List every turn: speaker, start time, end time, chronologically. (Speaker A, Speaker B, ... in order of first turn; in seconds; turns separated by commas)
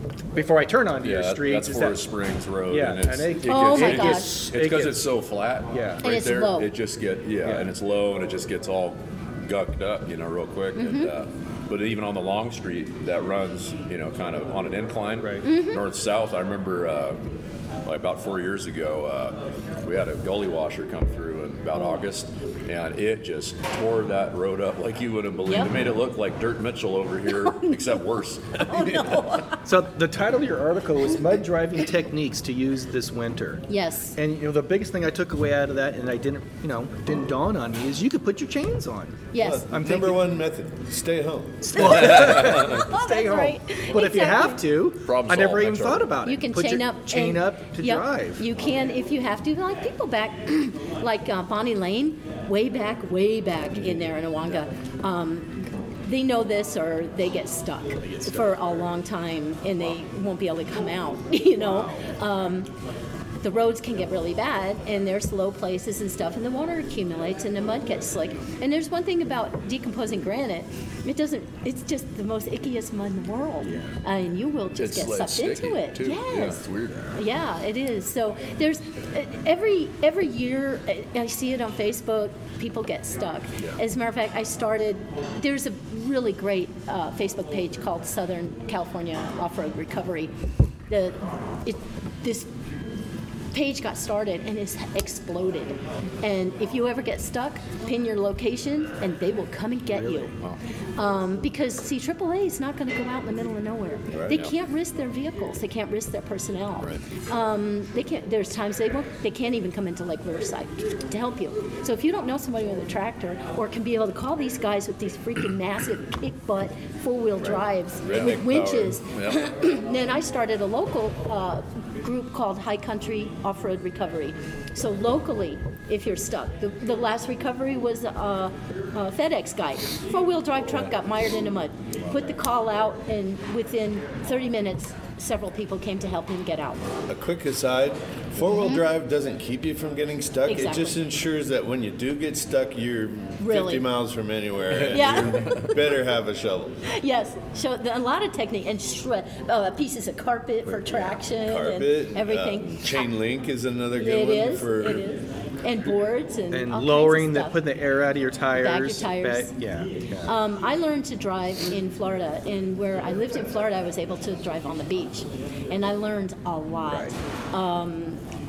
Speaker A: 0.3-2.0, Speaker B: 1.0-17.2, Speaker A: 2.7-5.1, Speaker C: 3.5-4.3, Speaker A: 5.7-6.0, Speaker C: 6.0-6.7, Speaker A: 7.4-7.7, Speaker C: 10.8-11.1, Speaker A: 15.2-15.5, Speaker C: 15.4-15.8, Speaker B: 17.8-29.4, Speaker C: 21.7-22.0, Speaker C: 27.4-27.8, Speaker C: 28.7-29.6, Speaker A: 29.6-40.2, Speaker C: 33.7-34.1, Speaker C: 39.3-39.7, Speaker D: 39.4-42.0, Speaker A: 41.6-48.4, Speaker B: 41.8-42.9, Speaker C: 42.1-44.6, Speaker B: 45.0-46.1, Speaker C: 46.2-62.7, Speaker A: 58.0-58.6, Speaker A: 61.7-62.0, Speaker C: 63.4-76.6, Speaker A: 73.6-74.0, Speaker B: 74.8-77.2, Speaker C: 77.2-90.3, Speaker C: 90.9-92.5, Speaker C: 93.5-100.4, Speaker A: 100.0-100.2, Speaker C: 101.0-136.9, Speaker B: 104.1-104.5, Speaker D: 118.0-118.8, Speaker B: 118.0-119.4, Speaker D: 137.1-146.8, Speaker C: 138.4-138.8, Speaker C: 140.4-141.0, Speaker C: 143.4-143.8, Speaker B: 144.7-145.7, Speaker C: 144.9-145.9, Speaker C: 146.9-153.1, Speaker D: 151.0-155.1, Speaker C: 154.0-157.6, Speaker A: 156.5-160.3, Speaker C: 158.5-159.5, Speaker C: 160.2-168.2, Speaker A: 166.9-167.1